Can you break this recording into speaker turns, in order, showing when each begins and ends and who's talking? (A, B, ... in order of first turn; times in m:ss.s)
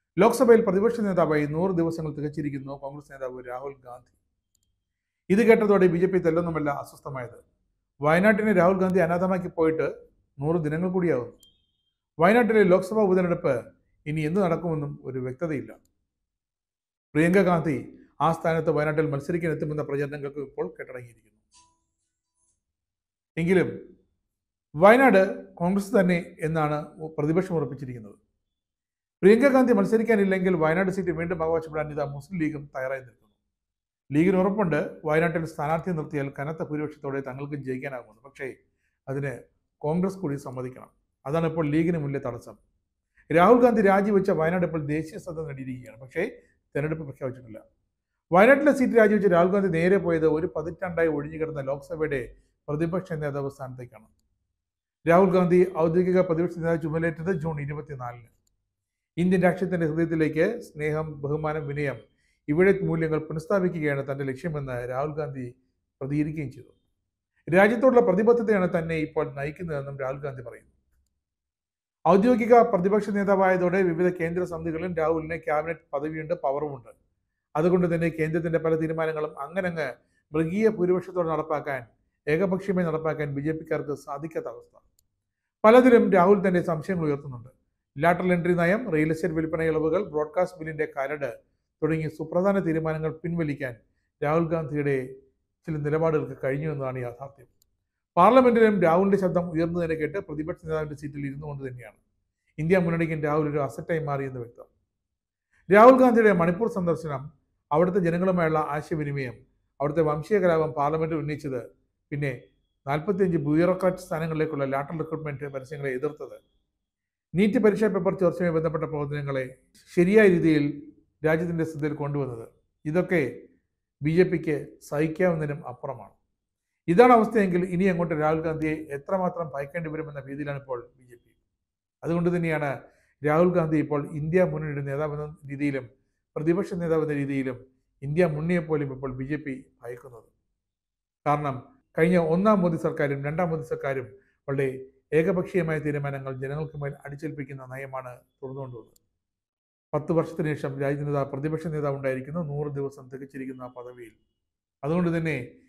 0:00.2-0:04.2 A
0:05.3-0:07.4 A
0:08.0-0:11.4 A
0:12.2-0:13.6 A
0:14.1-0:15.8 A
0:17.2-0:21.4 A
0:23.4-0:23.7 A
0:24.8-0:28.2 A
0:29.2-0:33.3 A
0:34.1-0:38.5 A
0:39.1-0:42.6 A
0:43.3-0:47.6 A
0:48.4-0:54.1 A
0:55.1-0:58.3 A
0:59.2-1:05.5 A
1:06.0-1:06.8 A
1:07.5-1:10.7 A
1:12.1-1:16.9 A
1:17.6-1:24.8 A
1:25.6-1:35.0 A
1:35.6-1:37.5 A
1:38.2-1:42.0 A
1:42.6-1:44.7 A
1:45.7-1:47.2 A
1:47.7-1:52.3 A
1:52.9-1:56.4 A
1:57.4-2:00.7 A
2:01.2-2:03.3 A
2:04.0-2:06.2 A
2:06.9-2:11.4 A
2:12.0-2:12.7 A
2:13.3-2:20.3 A
2:21.3-2:29.0 A
2:29.9-2:34.2 A
2:34.8-2:35.4 A